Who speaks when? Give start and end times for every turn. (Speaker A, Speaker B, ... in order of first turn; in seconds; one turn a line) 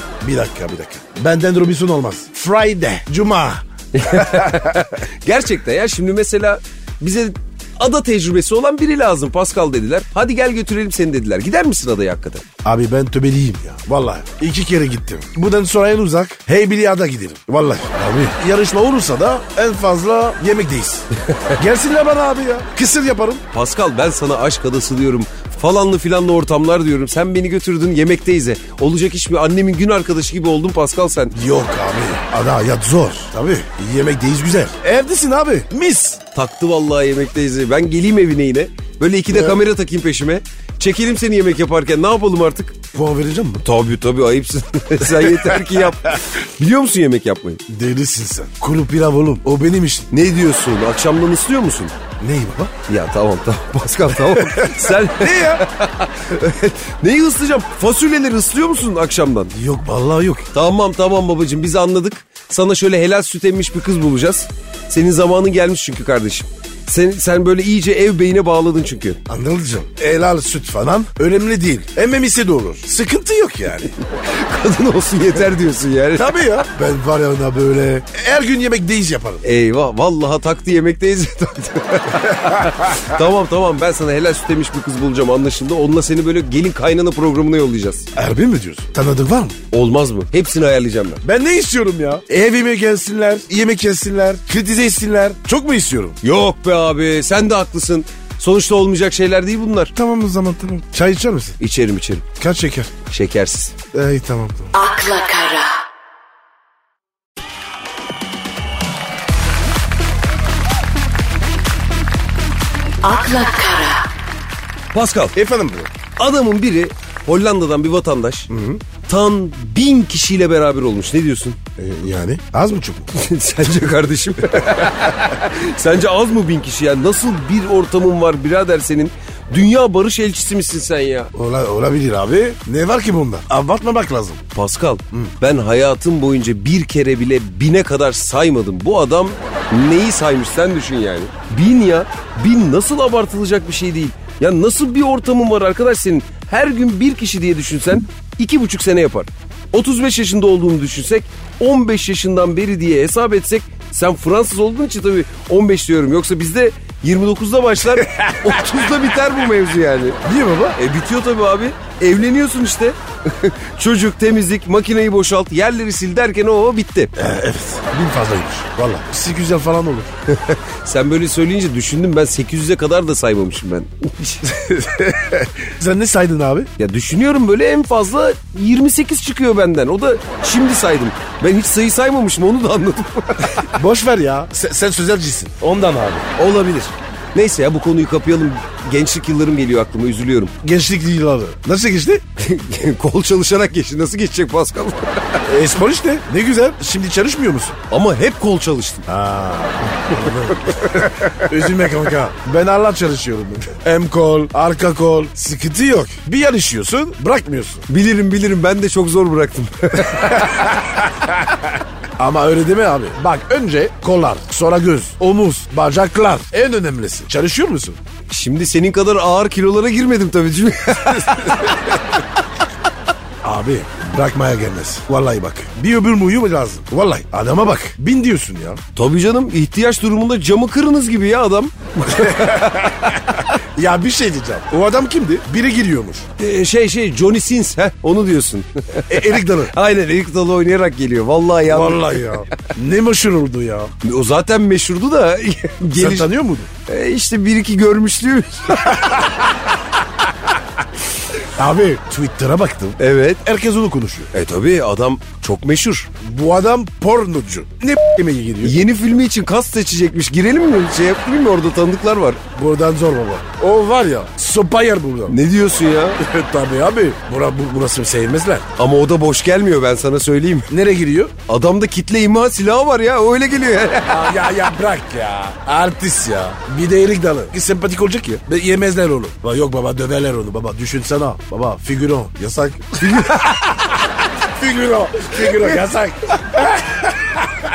Speaker A: 0.2-4.8
Speaker B: 3.9-12.4
Speaker A: 12.6-23.4
Speaker B: 23.5-31.4
Speaker A: 31.3-36.2
Speaker B: 36.4-42.8
Speaker A: 39.3-39.6
Speaker A: 42.9-43.6
Speaker B: 43.6-47.6
Speaker A: 45.1-45.9
Speaker A: 47.7-50.1
Speaker B: 50.1-51.9
Speaker A: 52.2-52.8
Speaker B: 52.9-59.5
Speaker A: 54.1-55.6
Speaker A: 59.5-60.5
Speaker B: 60.5-69.2
Speaker A: 69.3-74.0
Speaker B: 74.0-76.6
Speaker A: 76.2-79.4
Speaker B: 79.4-88.1
Speaker A: 82.4-83.0
Speaker A: 88.1-89.6
Speaker B: 89.7-91.2
Speaker A: 91.2-96.2
Speaker B: 96.2-99.9
Speaker A: 99.9-101.6
Speaker B: 101.6-102.3
Speaker A: 102.4-102.9
Speaker B: 103.1-103.8
Speaker A: 103.9-104.7
Speaker C: 104.7-105.8
Speaker C: 113.0-114.1
Speaker B: 114.9-115.3
Speaker A: 115.3-115.9
Speaker B: 116.2-118.5
Speaker A: 118.5-118.8
Speaker B: 119.1-121.6
Speaker A: 121.8-123.1
Speaker B: 123.1-131.3
Speaker A: 131.3-134.4
Speaker B: 134.5-160.2
Speaker A: 158.0-158.8
Speaker A: 160.2-160.8
Speaker B: 160.8-167.2
Speaker A: 167.2-170.1
Speaker B: 170.3-174.5
Speaker A: 174.4-176.7
Speaker B: 176.8-183.7
Speaker A: 183.7-186.3
Speaker B: 186.4-190.5
Speaker A: 190.6-192.2
Speaker B: 192.4-195.4
Speaker A: 195.4-197.8
Speaker B: 197.9-199.1
Speaker A: 199.1-207.9
Speaker B: 207.9-210.7
Speaker A: 210.1-218.0
Speaker B: 218.3-221.8
Speaker A: 221.1-221.9
Speaker A: 223.4-228.8
Speaker B: 228.9-233.2
Speaker A: 232.1-236.3
Speaker B: 236.4-242.4
Speaker A: 239.1-239.7
Speaker A: 241.7-243.9
Speaker B: 244.0-246.3
Speaker A: 245.9-246.7
Speaker B: 246.9-249.2
Speaker A: 248.9-249.5
Speaker A: 251.5-254.3
Speaker B: 253.0-253.4
Speaker B: 254.3-256.1
Speaker A: 256.2-258.8
Speaker B: 258.6-262.4
Speaker A: 262.6-265.4
Speaker B: 265.3-266.2
Speaker A: 266.2-268.7
Speaker B: 268.8-270.7
Speaker A: 270.7-271.3
Speaker B: 271.5-274.2
Speaker A: 274.1-283.6
Speaker B: 283.0-283.6
Speaker A: 284.4-287.4